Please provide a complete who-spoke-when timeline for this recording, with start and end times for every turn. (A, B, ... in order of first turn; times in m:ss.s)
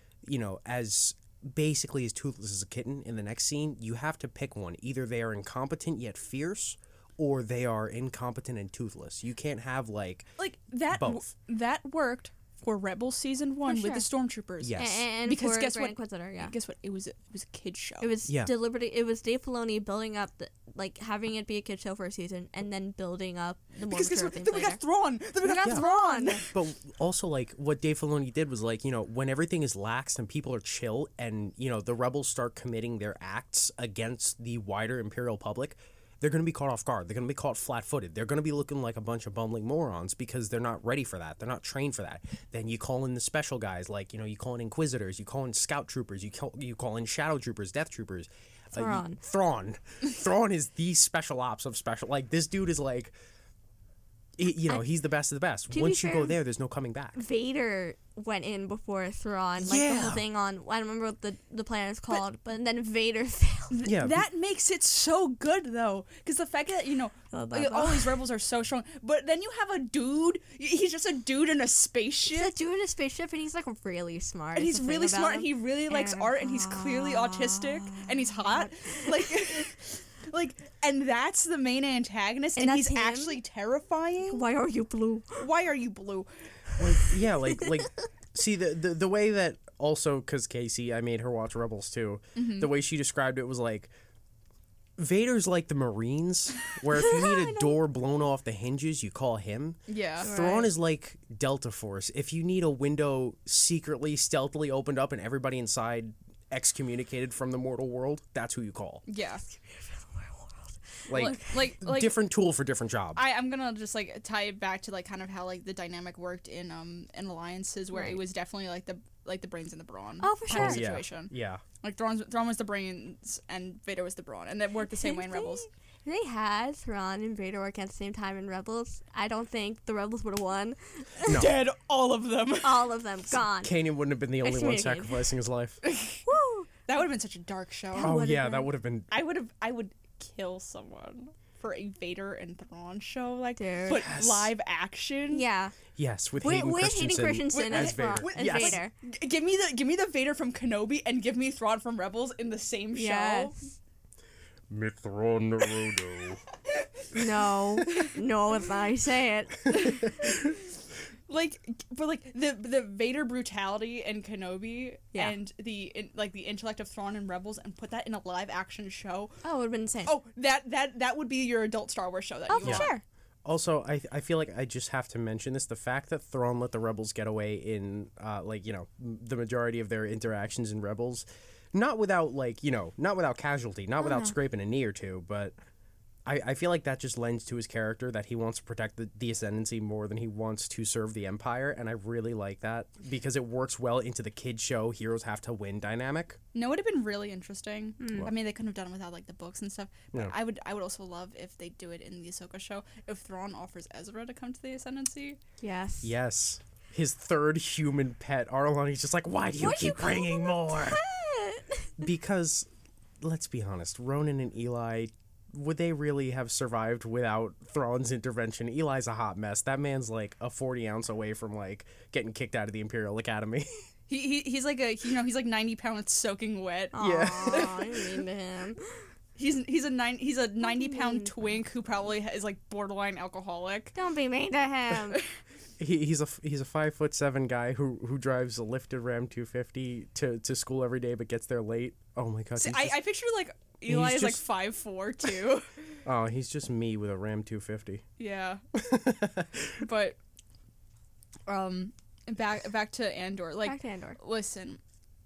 0:00.2-0:10.3 A
0:10.4-0:18.1 B
0:10.9-0:11.3 A
0:13.7-0:14.0 C
0:14.6-0:15.0 A
0:14.8-0:16.5 C
0:18.0-0:24.8 C
0:18.3-0:18.5 A
0:23.9-0:26.5 B
0:25.4-0:26.5 C
0:26.5-0:53.1 A
0:48.7-0:49.2 C
0:54.4-0:57.2 A
0:55.7-0:56.4 C
0:57.2-1:03.8 C
0:59.6-1:00.2 A
1:03.7-1:12.5 B
1:03.8-1:04.2 A
1:07.3-1:08.2 C
1:12.3-1:19.4 C
1:14.5-1:24.4 B
1:22.6-1:23.4 C
1:24.3-1:25.5 C
1:25.4-1:26.3 B
1:26.8-1:33.9 A
1:26.8-1:27.9 C
1:32.4-1:32.7 B
1:35.0-1:49.0 A
1:37.0-1:37.7 C
1:39.9-1:40.3 B
1:40.2-1:40.7 C
1:49.0-1:49.4 B
1:49.5-1:51.6 C
1:51.1-1:53.2 A
1:51.1-1:52.1 B
1:53.1-2:05.7 B
1:57.9-1:58.2 C
2:00.2-2:00.9 C
2:00.5-2:01.6 A
2:04.9-2:11.4 C
2:11.2-2:12.9 B
2:11.3-2:11.5 A
2:12.6-2:13.8 C
2:13.6-2:15.8 A
2:14.4-2:15.3 C
2:15.8-2:16.2 B
2:16.2-2:16.7 C
2:16.9-2:18.1 B
2:17.9-2:18.7 C
2:18.0-2:19.1 A
2:19.1-2:25.4 B
2:23.6-2:24.1 C
2:23.9-2:24.5 A
2:25.3-2:25.8 C
2:25.9-2:28.8 A
2:26.4-2:28.9 C
2:27.5-2:33.6 B
2:33.0-2:33.7 C
2:34.7-2:36.4 A
2:36.7-2:37.2 B
2:37.1-2:40.1 C
2:37.9-2:38.1 B
2:39.7-2:40.6 B
2:41.3-2:49.4 B
2:49.4-2:50.2 C
2:50.0-2:53.0 B
2:52.5-2:53.0 C
2:52.6-2:52.9 A
2:53.4-3:05.5 A
3:04.0-3:04.3 C
3:06.2-3:16.4 A
3:16.5-3:25.4 B
3:18.0-3:18.3 C
3:25.6-3:26.1 C
3:26.0-3:31.0 A
3:29.6-3:31.9 C
3:32.0-3:32.7 A
3:33.2-3:43.7 A
3:44.1-3:48.2 B
3:46.9-3:48.8 C
3:47.0-3:47.7 A
3:49.4-3:54.0 B
3:50.6-3:51.3 C
3:53.9-3:55.2 C
3:55.8-4:03.0 A
4:02.6-4:06.0 B
4:03.9-4:04.4 A
4:06.0-4:08.0 A
4:08.2-4:08.6 B
4:08.7-4:09.8 A
4:09.8-4:10.2 B
4:11.5-4:14.8 B
4:13.6-4:14.2 C